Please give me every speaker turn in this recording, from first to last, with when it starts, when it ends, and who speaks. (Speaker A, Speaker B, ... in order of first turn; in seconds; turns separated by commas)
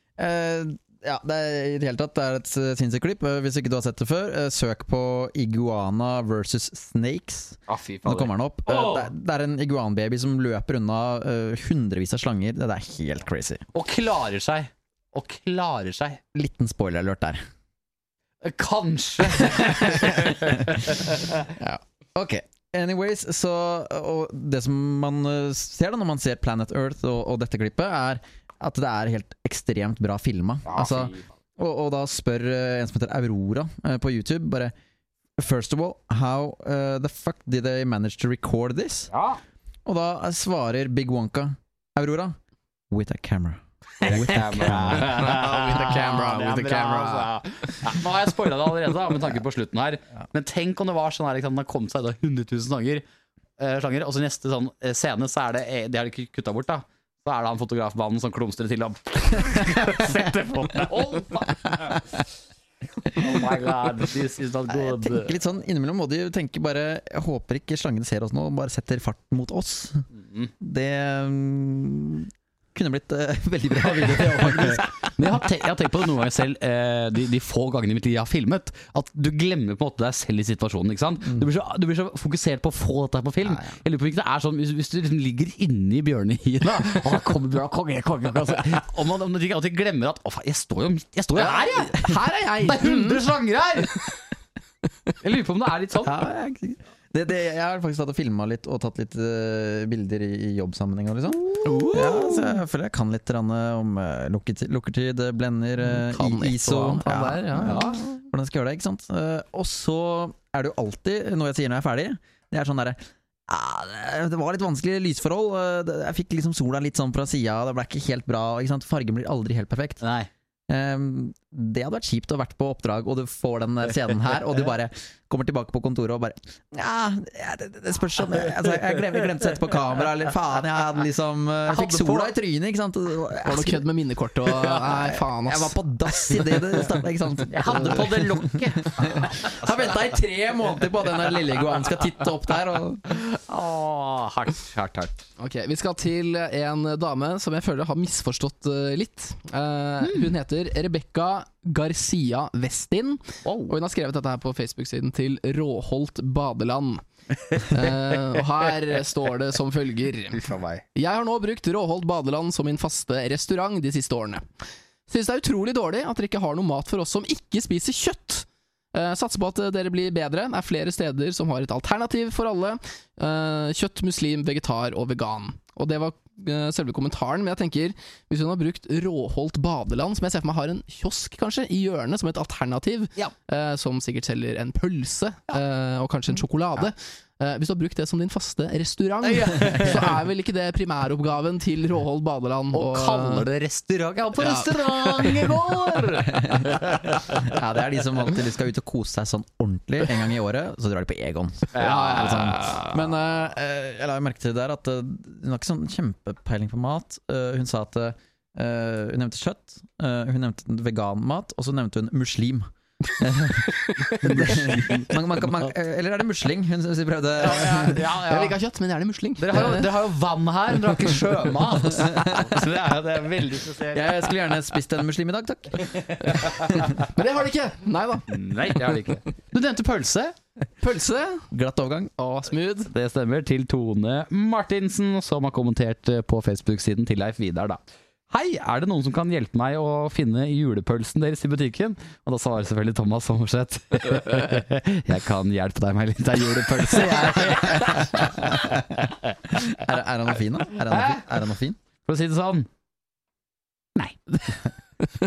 Speaker A: 0.2-13.6, Speaker B: 7.7-9.1, Speaker B: 13.7-16.2, Speaker A: 16.3-17.4, Speaker B: 18.4-21.4, Speaker A: 19.5-34.7, Speaker B: 30.7-31.2, Speaker A: 35.4-39.1, Speaker B: 39.1-39.4, Speaker A: 39.9-42.4, Speaker A: 42.9-45.4, Speaker B: 44.0-53.0, Speaker C: 44.6-47.3, Speaker B: 53.6-62.2, Speaker B: 63.1-65.4, Speaker A: 64.7-70.1, Speaker A: 70.6-74.9, Speaker B: 74.3-94.1, Speaker C: 91.3-93.2, Speaker B: 95.2-96.2, Speaker A: 96.0-120.0, Speaker C: 101.5-102.6, Speaker C: 105.8-108.2, Speaker B: 107.6-108.0, Speaker B: 120.0-120.3, Speaker A: 120.7-133.8, Speaker B: 131.8-132.1, Speaker C: 133.4-135.8, Speaker A: 134.8-143.1, Speaker B: 137.5-139.7, Speaker B: 143.2-145.3, Speaker C: 145.4-164.4, Speaker B: 150.0-150.3, Speaker B: 153.4-153.8, Speaker B: 160.3-160.8, Speaker C: 165.1-193.5, Speaker B: 189.2-190.2, Speaker B: 192.7-197.5, Speaker C: 194.4-195.5, Speaker A: 196.3-218.1, Speaker B: 201.7-202.7, Speaker C: 201.8-203.0, Speaker C: 213.7-214.9, Speaker B: 214.2-215.1, Speaker B: 217.4-218.6, Speaker C: 218.0-219.9, Speaker B: 219.4-224.1, Speaker A: 222.0-222.5, Speaker A: 223.9-226.6, Speaker B: 226.0-226.9, Speaker C: 227.0-228.9, Speaker B: 228.3-230.3, Speaker C: 230.8-231.5, Speaker A: 231.5-232.1, Speaker C: 232.2-232.9, Speaker B: 232.9-249.3, Speaker A: 247.6-248.8, Speaker A: 249.5-251.8, Speaker B: 250.8-251.2, Speaker B: 252.0-252.7